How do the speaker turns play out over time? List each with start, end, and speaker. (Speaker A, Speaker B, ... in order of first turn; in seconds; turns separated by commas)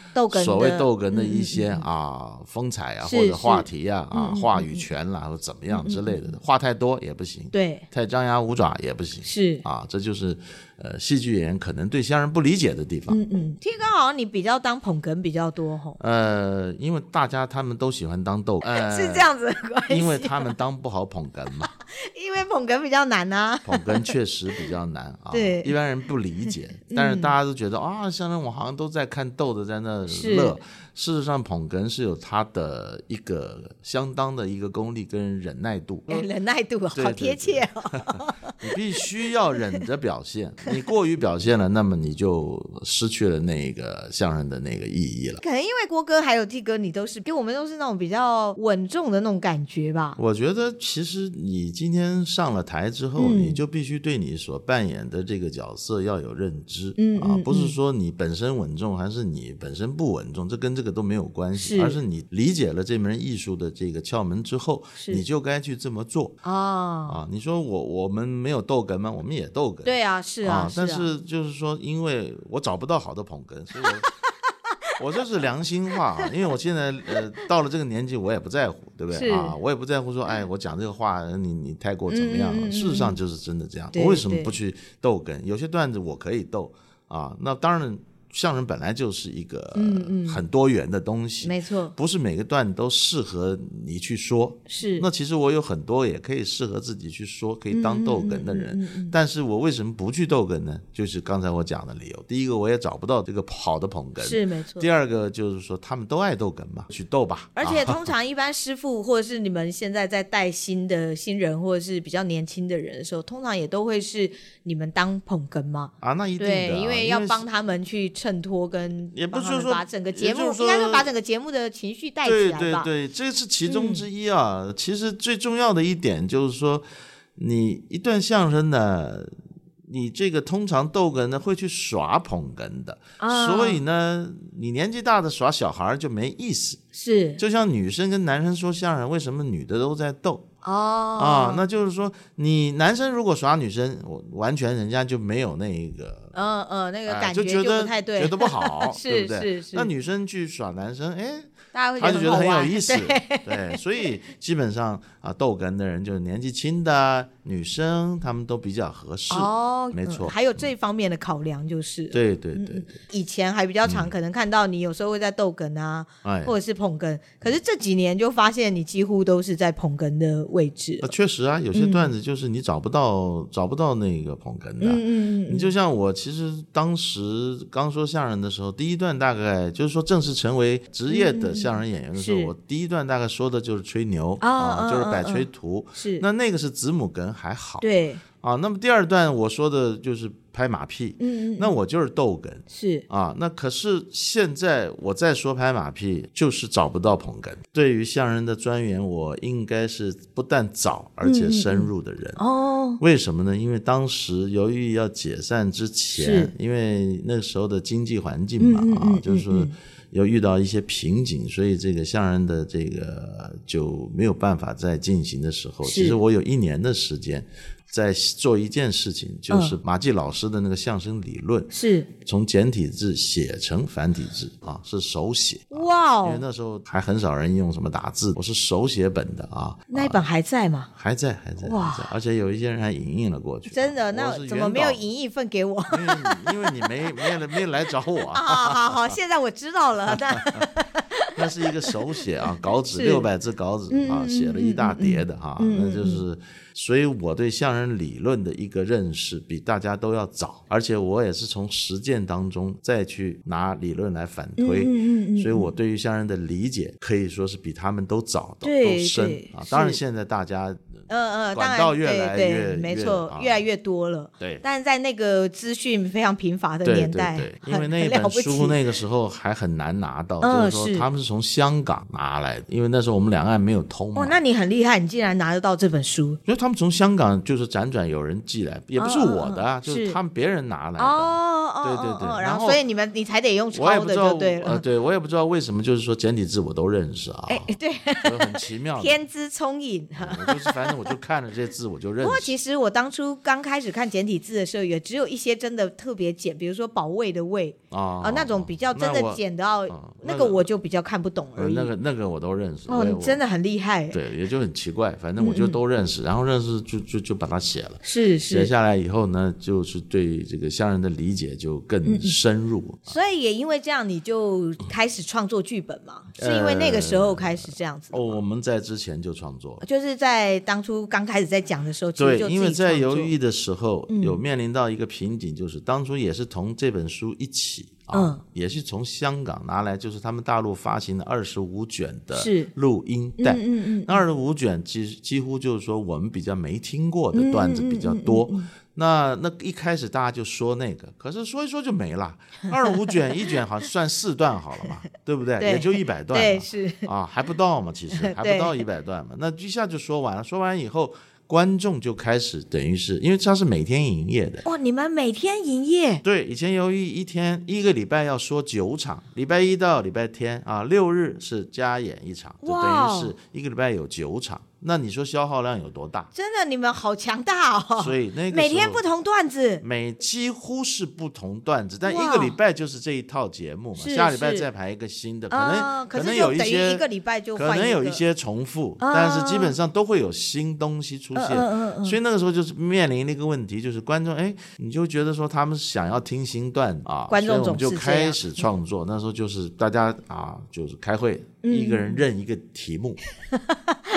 Speaker A: 0.1-1.8, Speaker B: 0.3-13.2, Speaker A: 3.0-4.8, Speaker A: 5.7-6.4, Speaker A: 7.5-7.8, Speaker A: 9.2-9.6, Speaker A: 13.1-16.0, Speaker B: 16.0-19.3, Speaker A: 18.6-20.5, Speaker B: 19.9-21.7, Speaker A: 22.0-24.6, Speaker B: 23.6-36.3, Speaker A: 25.3-25.7, Speaker A: 26.9-27.3, Speaker A: 30.1-30.6, Speaker A: 36.1-38.5, Speaker B: 36.9-45.4, Speaker A: 45.4-50.2, Speaker B: 50.2-66.4, Speaker A: 53.1-53.6, Speaker A: 57.0-57.7, Speaker A: 61.5-62.0, Speaker A: 65.0-65.2, Speaker A: 66.4-67.2, Speaker B: 67.1-74.1, Speaker A: 69.8-71.1, Speaker A: 73.8-74.1, Speaker B: 75.0-108.1, Speaker A: 79.1-79.5, Speaker A: 82.1-83.2, Speaker A: 83.9-84.5, Speaker A: 89.7-90.4, Speaker A: 91.4-91.9, Speaker A: 94.7-95.0, Speaker A: 97.7-99.1, Speaker A: 104.2-104.9, Speaker A: 107.5-122.9, Speaker B: 116.0-117.5, Speaker B: 119.1-121.1, Speaker B: 122.2-129.3, Speaker A: 123.7-124.0, Speaker B: 129.9-136.8, Speaker A: 133.2-133.8, Speaker A: 136.9-137.4, Speaker B: 137.4-140.4, Speaker A: 140.6-141.6, Speaker B: 141.2-146.3, Speaker A: 146.3-149.9, Speaker B: 147.1-160.6, Speaker A: 151.7-153.8, Speaker A: 159.3-171.1, Speaker B: 162.1-162.9, Speaker B: 163.8-164.1, Speaker B: 166.2-166.5, Speaker B: 171.0-187.9, Speaker A: 171.7-172.1, Speaker A: 174.8-175.7, Speaker A: 181.1-182.5, Speaker A: 184.4-186.2, Speaker A: 187.8-188.2, Speaker B: 188.4-202.4, Speaker A: 191.2-191.8, Speaker A: 192.7-193.0, Speaker A: 201.2-203.0, Speaker B: 203.0-221.7, Speaker A: 206.2-206.5, Speaker A: 208.6-209.7, Speaker A: 215.8-216.2, Speaker A: 219.5-219.8, Speaker A: 221.7-222.1, Speaker B: 222.2-230.2, Speaker A: 225.7-226.4, Speaker A: 229.9-230.9, Speaker B: 230.9-235.0, Speaker A: 231.6-232.1, Speaker A: 233.7-236.5, Speaker B: 235.9-239.1, Speaker A: 238.3-241.3, Speaker B: 241.3-263.6, Speaker A: 242.9-243.3, Speaker A: 243.9-246.2, Speaker A: 254.6-255.7, Speaker A: 258.6-260.0, Speaker A: 261.1-268.8, Speaker B: 264.4-264.6, Speaker B: 266.8-274.4, Speaker A: 270.4-271.1, Speaker A: 274.1-276.4, Speaker B: 276.4-282.8, Speaker A: 279.0-280.2, Speaker A: 281.0-284.8, Speaker B: 283.7-289.2, Speaker A: 287.5-291.1, Speaker B: 290.1-292.5, Speaker A: 292.2-301.9, Speaker B: 297.9-300.7, Speaker B: 301.6-303.4, Speaker A: 302.9-304.2, Speaker B: 304.1-313.2, Speaker A: 305.4-305.8, Speaker A: 308.0-308.7, Speaker A: 312.0-312.4, Speaker A: 313.1-318.4, Speaker B: 316.4-319.8, Speaker A: 319.8-323.3, Speaker B: 322.2-354.6, Speaker A: 324.1-324.4, Speaker A: 328.1-328.4, Speaker A: 332.3-332.7, Speaker A: 333.4-334.2, Speaker A: 337.3-338.7, Speaker A: 342.8-343.4, Speaker A: 345.6-347.1, Speaker A: 348.1-348.8, Speaker A: 354.6-356.2, Speaker B: 356.2-366.3, Speaker A: 362.6-363.3, Speaker A: 366.3-369.8, Speaker B: 368.0-369.0, Speaker B: 369.8-393.2, Speaker A: 372.0-372.6, Speaker A: 373.9-374.7, Speaker A: 375.5-378.2, Speaker A: 379.0-379.8, Speaker A: 381.3-382.2, Speaker A: 387.3-388.7, Speaker A: 391.6-392.2, Speaker A: 393.5-394.0